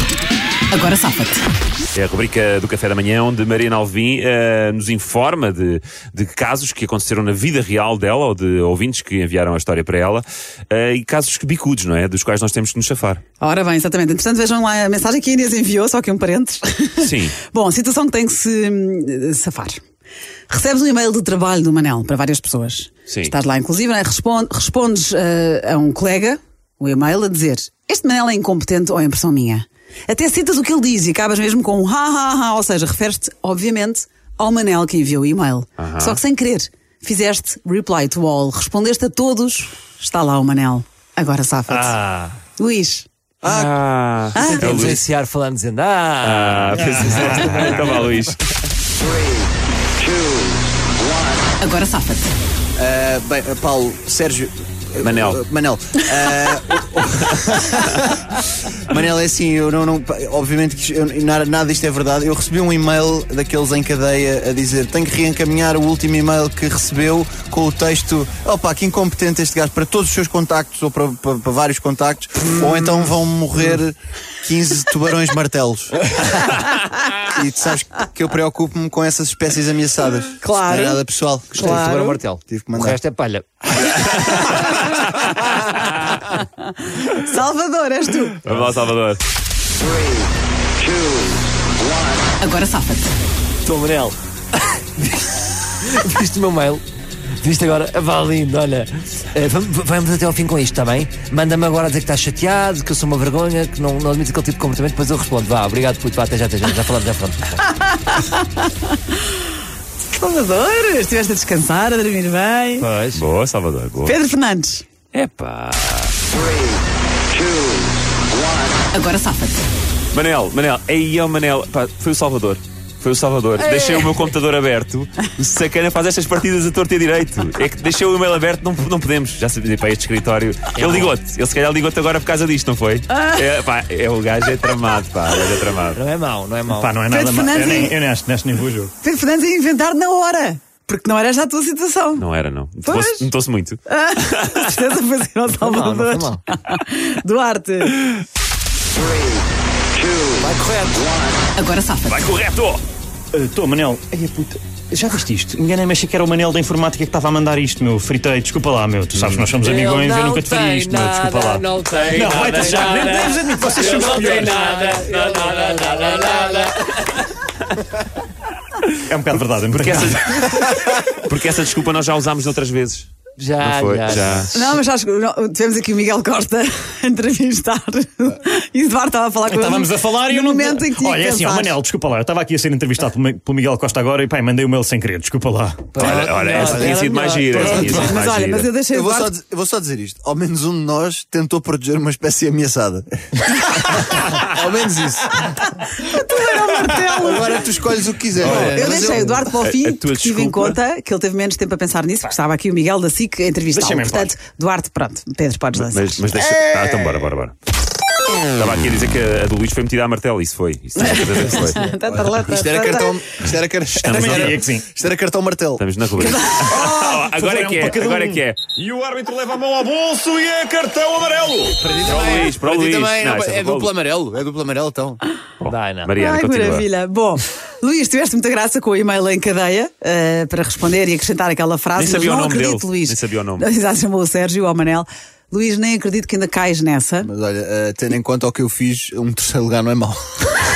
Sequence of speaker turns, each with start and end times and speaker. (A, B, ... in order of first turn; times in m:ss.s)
0:00.7-0:01.4 A
0:01.9-0:13.2 B
0:13.4-0:19.8 A
0:17.0-0:17.4 B
0:20.5-0:41.9 A
0:23.1-0:23.3 B
0:35.8-0:36.2 B
0:41.7-0:42.4 C
0:42.6-0:43.1 A
0:43.4-0:43.7 D
0:43.4-0:45.0 B
0:44.3-0:44.8 A
0:44.4-0:48.0 C
0:46.2-0:48.4 B
0:46.8-0:48.0 E
0:51.6-0:52.3 A
0:52.8-1:16.1 D
0:55.0-0:55.4 B
1:17.2-1:21.9 D
1:20.4-1:21.0 A
1:21.5-1:23.8 C
1:21.6-1:22.2 A
1:22.5-1:23.0 D
1:27.0-1:28.4 A
1:28.4-1:29.2 B
1:32.4-1:33.1 A
1:33.6-1:34.2 C
1:35.0-1:36.8 C
1:37.4-1:47.6 C
1:47.7-1:49.0 A
1:50.1-1:52.9 A
1:52.8-1:53.2 C
1:53.1-1:54.2 B
1:54.0-1:54.8 A
1:55.1-1:56.1 B
1:58.9-1:59.6 A
2:00.1-2:16.0 B
2:10.8-2:11.2 C
2:15.9-2:17.0 C
2:16.7-2:18.9 E
2:17.1-2:17.9 A
2:19.0-2:22.2 A
2:22.2-2:24.6 B
2:22.8-2:23.3 A
2:23.9-2:28.1 A
2:25.5-2:26.4 C
2:30.3-2:31.1 C
2:31.5-2:32.2 A
2:32.1-2:32.8 B
2:33.3-2:44.6 E
2:39.1-2:39.5 B
2:39.6-2:47.0 C
2:43.6-2:44.0 B
2:44.7-2:46.6 B
2:49.1-2:50.6 E
2:49.8-2:54.7 B
2:53.4-2:54.5 C
2:54.5-3:01.7 A
2:59.5-3:06.1 E
3:05.9-3:08.1 C
3:06.0-3:08.7 B
3:06.0-3:06.9 D
3:07.6-3:09.3 A
3:08.9-3:15.3 D
3:15.5-3:17.7 A
3:17.1-3:19.4 D
3:18.4-3:18.9 B
3:18.5-3:26.2 A
3:19.4-3:20.8 B
3:23.7-3:24.3 E
3:25.8-3:27.5 B
3:28.5-3:31.8 B
3:31.0-3:33.2 A
3:32.1-3:35.8 D
3:33.9-3:34.6 B
3:34.1-3:34.9 E
3:35.8-3:38.7 B
3:36.2-3:37.1 A
3:36.6-3:41.7 E
3:41.8-3:45.2 D
3:41.9-3:42.6 C
3:42.0-3:43.9 B
3:45.6-3:46.9 B
3:45.6-3:46.1 C
3:46.2-3:57.3 A
3:52.0-3:53.7 B
3:57.2-4:00.5 D